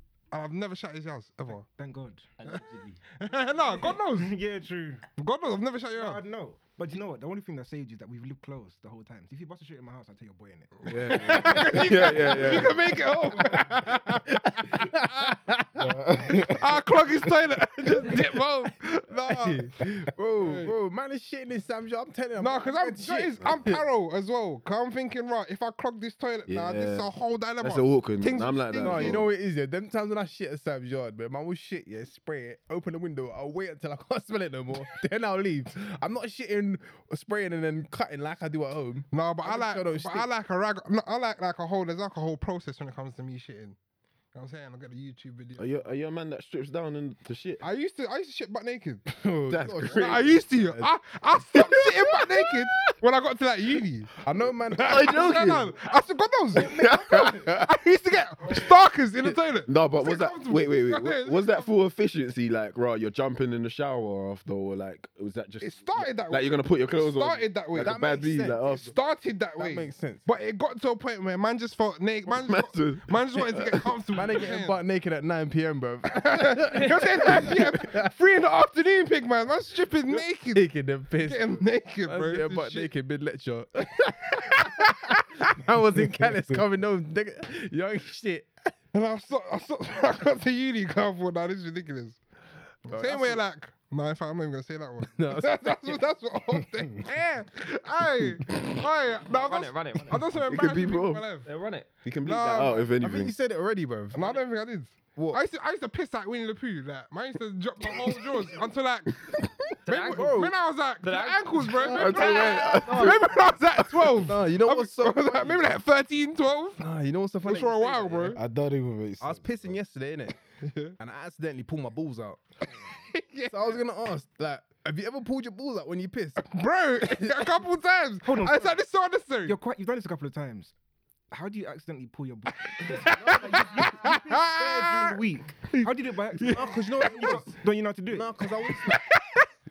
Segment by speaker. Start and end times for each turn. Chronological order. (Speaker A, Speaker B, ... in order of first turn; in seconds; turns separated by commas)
Speaker A: 0.3-1.6, Speaker B: 1.7-2.4, Speaker C: 2.4-3.0, Speaker A: 3.2-4.3, Speaker B: 3.6-5.0, Speaker A: 5.2-6.2, Speaker B: 5.9-13.7, Speaker A: 10.8-15.4, Speaker D: 10.9-12.8, Speaker E: 14.6-16.5, Speaker F: 15.8-16.8, Speaker A: 16.3-19.8, Speaker E: 17.8-18.3, Speaker E: 19.2-23.8, Speaker A: 20.4-20.7, Speaker A: 22.4-29.2, Speaker D: 26.5-29.3, Speaker E: 28.8-40.3, Speaker A: 39.1-43.8, Speaker A: 44.3-45.8, Speaker D: 45.6-47.6, Speaker A: 47.6-49.0, Speaker E: 49.0-50.9, Speaker D: 49.5-50.4, Speaker A: 49.8-54.1, Speaker D: 51.6-52.9, Speaker E: 54.2-55.7, Speaker A: 54.8-61.7, Speaker D: 54.8-55.7, Speaker D: 56.5-57.6, Speaker E: 56.7-57.4, Speaker D: 59.6-68.9, Speaker A: 65.6-68.0, Speaker E: 67.8-68.9, Speaker A: 68.7-74.8, Speaker E: 69.6-70.2, Speaker D: 72.3-74.0, Speaker E: 74.1-78.1, Speaker A: 76.1-80.6, Speaker E: 80.1-88.7, Speaker A: 81.2-82.9, Speaker A: 84.5-85.1, Speaker F: 86.0-86.6, Speaker A: 88.9-92.2, Speaker E: 92.9-93.4, Speaker A: 92.9-101.5, Speaker E: 95.0-96.0, Speaker C: 99.2-100.2, Speaker D: 100.5-101.3, Speaker C: 101.4-101.9, Speaker D: 102.0-103.3, Speaker A: 102.2-102.9, Speaker E: 103.0-104.4, Speaker A: 104.1-109.3, Speaker E: 105.1-105.4, Speaker C: 109.8-110.5, Speaker A: 109.8-116.8, Speaker E: 110.1-110.5, Speaker C: 111.0-113.2, Speaker D: 111.8-113.2, Speaker E: 112.3-113.0, Speaker D: 113.8-114.1, Speaker E: 114.2-115.7, Speaker E: 116.8-118.4, Speaker A: 117.4-118.4, Speaker F: 118.3-119.7, Speaker E: 119.2-120.3, Speaker A: 120.6-120.9, Speaker E: 121.0-122.4, Speaker A: 123.0-123.8, Speaker E: 123.5-126.5, Speaker A: 126.4-129.6, Speaker E: 127.1-127.5, Speaker B: 128.2-128.7, Speaker B: 129.4-130.7, Speaker B: 131.3-138.4, Speaker A: 132.7-135.2, Speaker E: 133.0-135.2, Speaker A: 135.7-137.3, Speaker E: 136.4-137.5, Speaker E: 138.1-139.1, Speaker A: 138.9-139.4